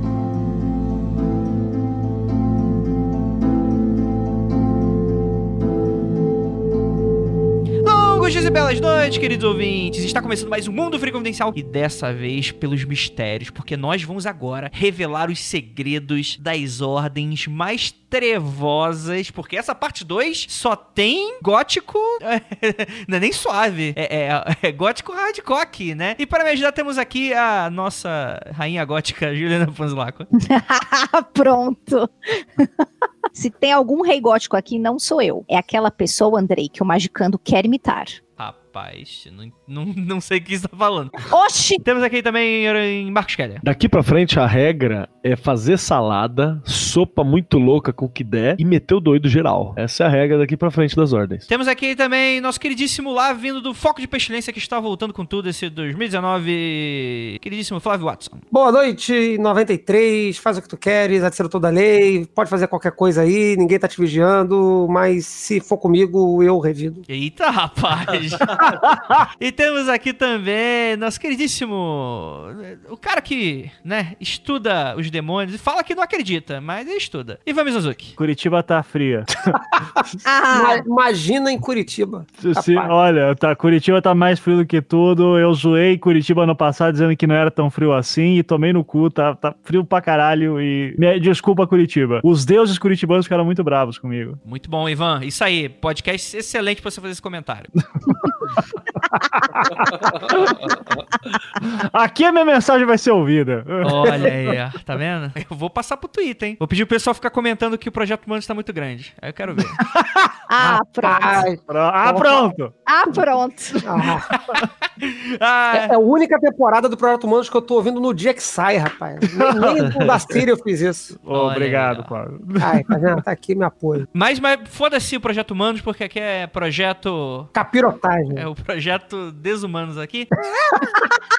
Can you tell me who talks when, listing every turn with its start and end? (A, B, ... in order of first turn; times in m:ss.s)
0:07.8-0:30.3 A
0:30.4-0:38.2 B
0:38.4-0:41.3 A
0:41.3-0:41.8 B
0:41.8-0:43.6 A
0:43.6-0:51.5 C
0:51.5-0:58.4 A
0:58.5-1:07.0 D
1:07.1-1:08.6 A
1:08.5-1:09.2 E
1:09.4-1:18.2 A
1:18.2-1:19.6 E
1:19.7-1:22.9 D
1:20.2-1:20.8 B
1:22.4-1:34.4 E
1:34.4-1:37.7 A
1:38.1-1:38.5 E
1:39.1-1:40.8 E
1:40.7-1:41.0 C
1:41.6-1:44.5 E
1:43.8-1:49.8 A
1:49.8-1:50.3 E
1:50.5-1:51.4 B
1:50.6-1:52.5 D
1:51.7-1:52.7 E
1:52.9-1:53.9 B
1:53.8-1:54.3 D
1:54.6-1:55.9 A
1:55.7-2:01.2 D
1:59.3-2:00.4 E
2:01.2-2:03.2 E
2:01.3-2:02.1 A
2:02.6-2:04.1 D
2:04.1-2:07.5 A
2:07.6-2:08.4 D
2:08.3-2:10.3 A
2:10.6-2:11.1 D